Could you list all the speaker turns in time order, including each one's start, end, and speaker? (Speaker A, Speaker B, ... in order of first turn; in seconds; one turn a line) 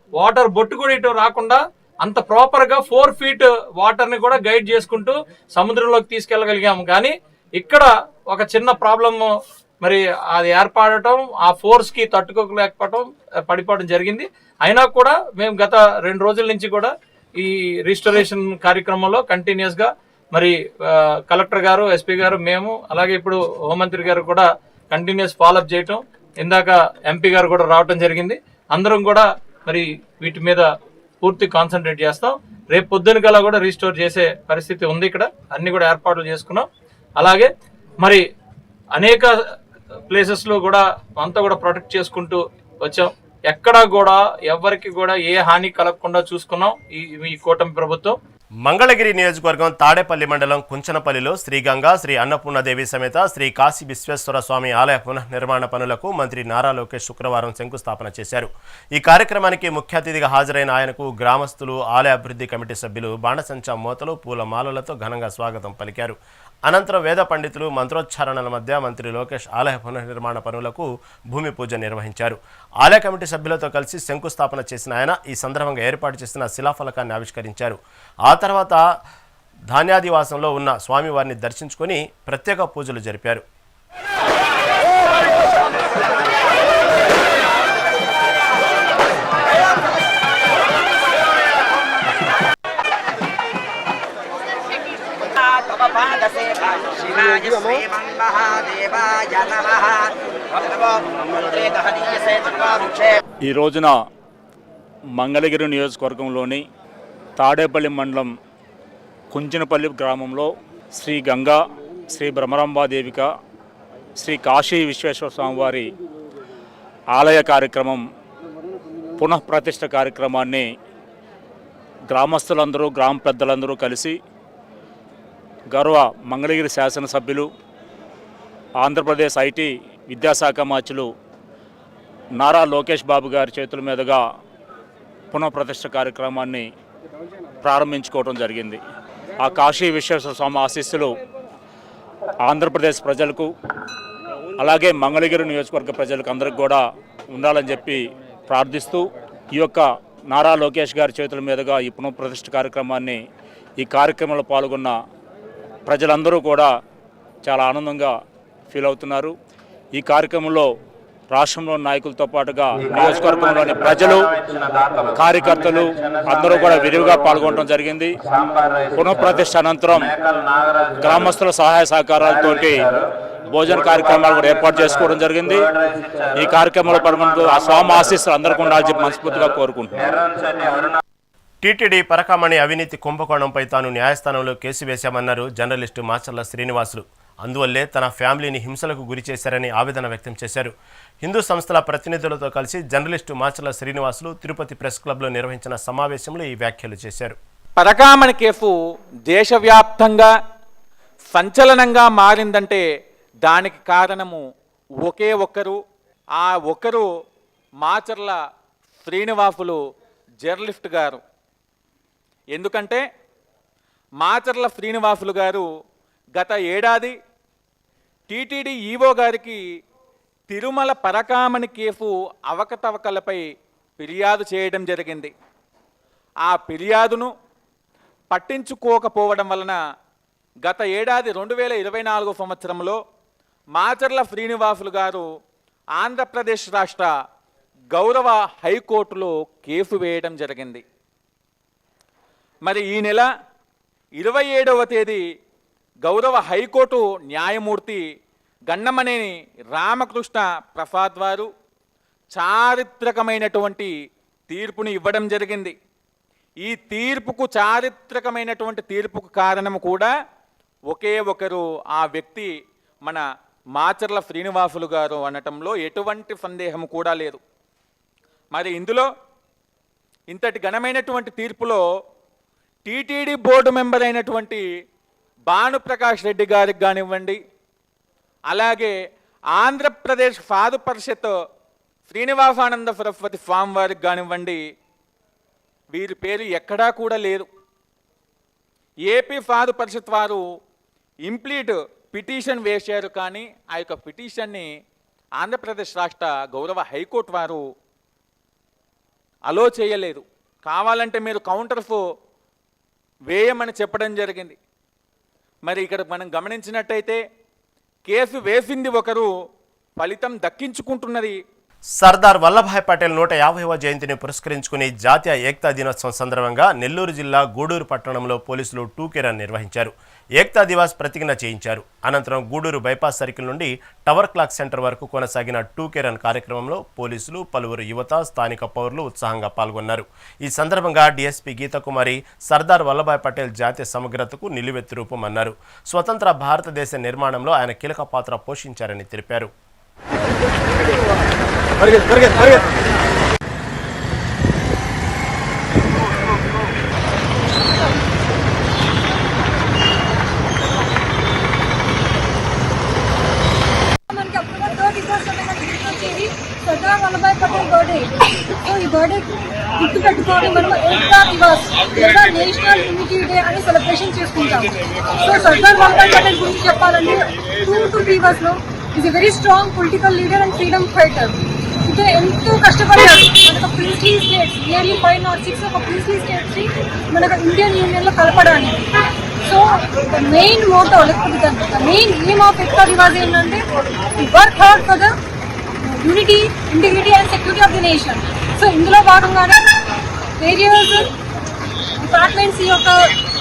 Speaker A: 0.2-9.3
Speaker A: 9.8-20.5
Speaker A: 21.3-30.6
Speaker A: 31.2-36.6
Speaker A: 37.2-37.5
Speaker A: 39.0-39.3
Speaker A: 40.1-48.1
Speaker B: 48.6-78.8
Speaker B: 79.7-83.4
Speaker C: 103.4-103.9
Speaker C: 105.2-106.6
Speaker C: 107.4-108.3
Speaker C: 109.3-111.6
Speaker C: 112.1-113.2
Speaker C: 114.2-115.9
Speaker C: 117.1-118.0
Speaker C: 119.2-120.6
Speaker C: 122.1-124.2
Speaker C: 125.7-127.5
Speaker C: 128.8-131.1
Speaker C: 132.4-134.2
Speaker C: 135.3-136.6
Speaker C: 137.6-138.8
Speaker C: 139.4-141.2
Speaker C: 142.4-143.5
Speaker C: 144.6-146.8
Speaker C: 147.3-149.0
Speaker C: 149.5-153.2
Speaker C: 153.8-154.9
Speaker C: 155.8-156.7
Speaker C: 157.4-158.1
Speaker C: 158.7-159.3
Speaker C: 159.9-160.7
Speaker C: 161.3-164.3
Speaker B: 162.9-165.2
Speaker C: 165.1-168.2
Speaker B: 166.6-167.0
Speaker B: 168.2-168.9
Speaker C: 168.9-170.1
Speaker B: 170.1-170.8
Speaker C: 170.9-172.9
Speaker B: 172.6-173.0
Speaker C: 173.5-175.7
Speaker B: 173.9-174.8
Speaker B: 175.7-176.2
Speaker C: 176.3-180.0
Speaker B: 180.0-181.0
Speaker B: 181.6-197.4
Speaker D: 197.8-198.7
Speaker D: 199.3-200.3
Speaker D: 201.3-202.8
Speaker D: 203.4-204.4
Speaker D: 205.0-205.8
Speaker D: 206.4-207.1
Speaker D: 207.8-208.3
Speaker D: 209.0-209.8
Speaker D: 210.4-211.2
Speaker D: 212.5-213.0
Speaker D: 214.2-215.7
Speaker D: 216.3-217.1
Speaker D: 218.3-219.6
Speaker D: 220.5-223.4
Speaker D: 224.0-225.3
Speaker D: 226.4-227.3
Speaker D: 228.3-229.8
Speaker D: 230.6-233.0
Speaker D: 233.7-235.2
Speaker D: 236.0-237.1
Speaker D: 237.9-240.8
Speaker D: 242.6-243.2
Speaker D: 244.2-245.2
Speaker D: 246.0-248.0
Speaker D: 248.7-251.5
Speaker D: 252.3-253.9
Speaker D: 254.5-255.7
Speaker D: 256.6-260.1
Speaker D: 260.9-262.5
Speaker D: 263.8-267.4
Speaker D: 268.5-269.1
Speaker D: 270.3-271.8
Speaker D: 272.9-274.6
Speaker D: 275.5-277.4
Speaker D: 278.5-278.9
Speaker D: 279.5-281.3
Speaker D: 282.1-284.6
Speaker D: 285.9-287.5
Speaker D: 289.1-290.4
Speaker D: 291.2-294.7
Speaker D: 295.4-297.6
Speaker D: 299.5-302.0
Speaker D: 303.3-304.6
Speaker D: 305.6-307.2
Speaker D: 308.1-309.3
Speaker D: 310.0-311.4
Speaker B: 312.0-339.5
Speaker E: 354.1-359.2
Speaker E: 359.8-364.7
Speaker E: 365.2-371.3
Speaker E: 371.9-378.9
Speaker E: 379.4-383.6
Speaker E: 384.2-385.1
Speaker E: 385.8-389.6
Speaker E: 390.4-391.1
Speaker E: 392.0-392.9